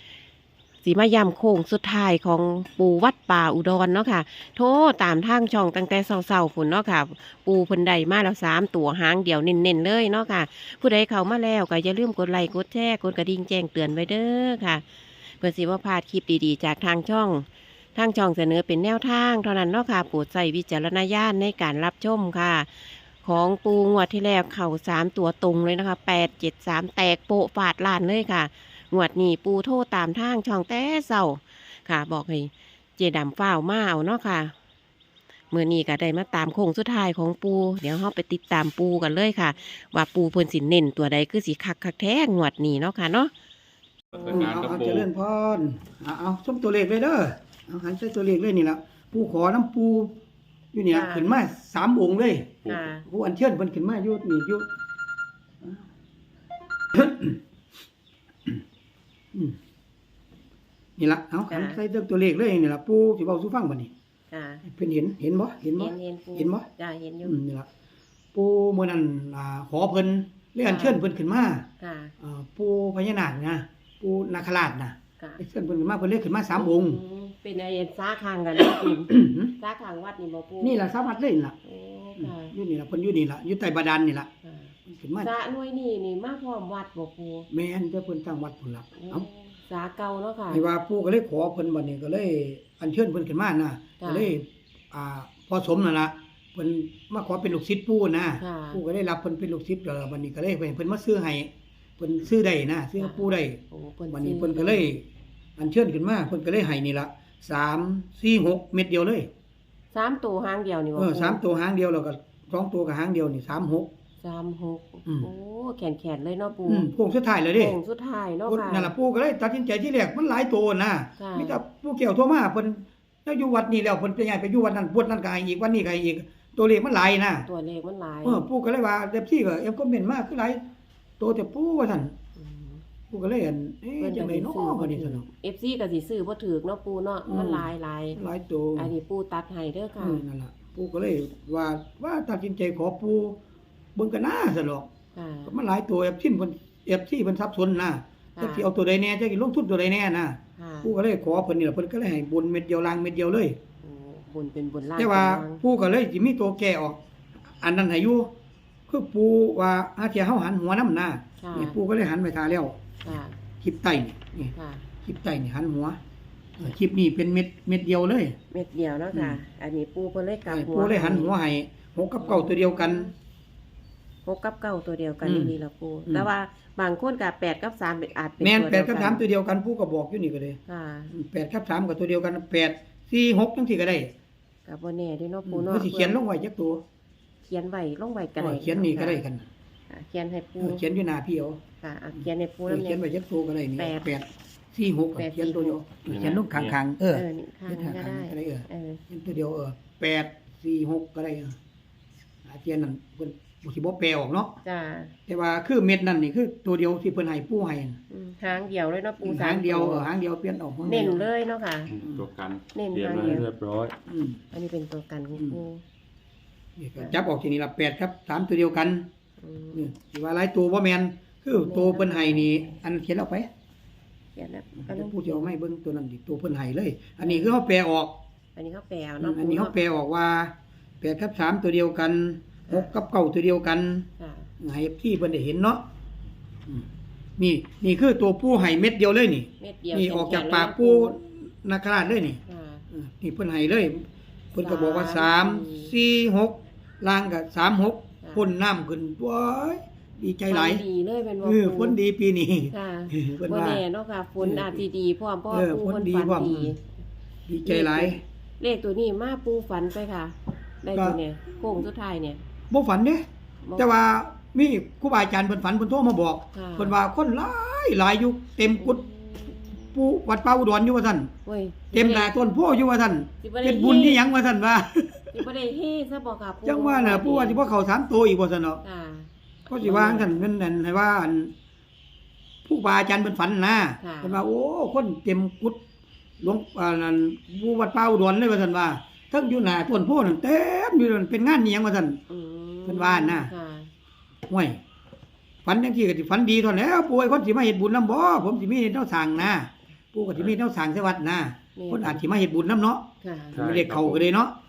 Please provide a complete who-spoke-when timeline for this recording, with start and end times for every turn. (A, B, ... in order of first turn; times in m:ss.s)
0:00.8-0:14.8 A
0:15.4-0:34.5 A
0:35.5-0:43.3 A
0:44.1-0:45.1 B
0:44.3-0:50.1 C
0:50.7-0:54.7 C
0:50.9-0:51.4 A
0:52.6-0:52.9 B
0:52.7-0:53.0 A
0:56.9-0:57.4 C
1:01.0-1:03.9 C
1:01.5-1:01.8 A
1:04.3-1:04.6 A
1:04.6-1:06.7 C
1:05.8-1:07.4 A
1:07.2-1:07.7 C
1:08.3-1:11.7 C
1:10.6-1:11.0 A
1:11.8-1:12.1 A
1:12.2-1:17.0 C
1:16.5-1:20.8 A
1:18.6-1:19.5 C
1:20.6-1:21.6 C
1:21.6-1:22.5 A
1:22.2-1:24.3 C
1:24.4-1:27.5 A
1:24.9-1:25.3 C
1:27.5-1:29.2 C
1:29.0-1:30.6 A
1:30.5-1:43.6 C
1:34.0-1:34.3 A
1:38.4-1:38.8 A
1:43.0-1:44.9 A
1:44.1-1:45.0 C
1:45.6-1:49.3 C
1:49.9-1:51.4 A
1:51.0-1:53.9 C
1:54.2-1:56.9 A
1:56.7-1:57.8 C
1:57.5-1:58.9 A
1:58.5-2:07.5 C
2:01.2-2:01.6 A
2:07.4-2:08.4 A
2:08.2-2:10.6 C
2:11.2-2:12.1 C
2:12.4-2:12.8 A
2:13.1-2:15.2 C
2:14.0-2:18.2 A
2:17.3-2:18.9 C
2:18.8-2:20.2 A
2:20.0-2:23.4 C
2:24.0-2:24.9 C
2:25.2-2:25.6 A
2:25.5-2:33.6 C
2:28.4-2:28.7 A
2:30.6-2:30.9 A
2:33.8-2:35.6 A
2:35.0-2:37.0 C
2:37.6-2:38.3 C
2:38.9-2:42.8 C
2:41.4-2:41.8 A
2:43.0-2:43.4 A
2:43.6-2:44.5 C
2:44.5-2:44.8 A
2:45.0-2:46.0 C
2:46.6-2:48.4 C
2:48.5-2:51.3 A
2:49.1-2:49.4 C
2:50.5-2:53.1 C
2:52.2-2:53.1 A
2:54.2-2:59.2 A
2:55.2-2:55.6 C
2:58.4-3:00.6 C
3:00.7-3:01.1 A
3:01.1-3:04.1 C
3:04.7-3:06.2 A
3:05.5-3:06.8 C
3:07.5-3:09.2 A
3:08.4-3:09.5 C
3:09.9-3:10.8 A
3:10.6-3:11.6 C
3:11.8-3:13.0 A
3:12.2-3:21.6 C
3:13.8-3:14.1 A
3:15.2-3:15.8 A
3:16.1-3:16.8 B
3:17.1-3:19.0 A
3:22.5-3:24.5 C
3:24.6-3:25.1 A
3:25.3-3:28.0 C
3:28.1-3:30.1 A
3:29.2-3:31.3 C
3:30.9-3:31.9 A
3:31.9-3:33.9 B
3:32.7-3:33.5 A
3:34.1-3:34.4 C
3:34.5-3:35.8 A
3:36.8-3:39.1 C
3:39.4-3:39.9 A
3:39.7-3:43.5 C
3:41.5-3:42.8 A
3:44.4-3:45.6 A
3:44.8-3:48.2 C
3:47.2-3:47.6 A
3:48.6-3:49.8 A
3:49.2-3:54.1 C
3:54.2-3:54.5 A
3:54.6-3:55.8 C
3:57.4-4:02.4 C
3:59.6-4:01.2 A
4:02.5-4:02.8 A
4:02.9-4:10.8 C
4:04.6-4:05.9 A
4:08.2-4:08.5 A
4:10.5-4:12.0 A
4:11.4-4:13.8 C
4:12.7-4:16.8 A
4:14.4-4:14.8 C
4:15.5-4:16.7 C
4:17.5-4:18.2 C
4:17.6-4:22.4 A
4:20.9-4:21.2 C
4:22.7-4:23.2 C
4:23.8-4:29.0 C
4:26.5-4:27.0 A
4:28.8-4:29.9 A
4:29.9-4:31.3 C
4:31.4-4:32.4 A
4:31.9-4:35.4 C
4:33.4-4:34.2 A
4:35.3-4:37.6 A
4:36.7-4:38.8 C
4:38.8-4:40.3 A
4:39.7-4:41.5 C
4:42.6-4:45.8 C
4:44.0-4:44.4 A
4:46.4-4:52.2 C
4:52.3-4:53.9 A
4:52.9-4:53.5 C
4:54.5-4:54.8 C
4:55.6-5:04.6 C
5:01.8-5:02.2 A
5:03.2-5:03.9 A
5:03.5-5:04.3 B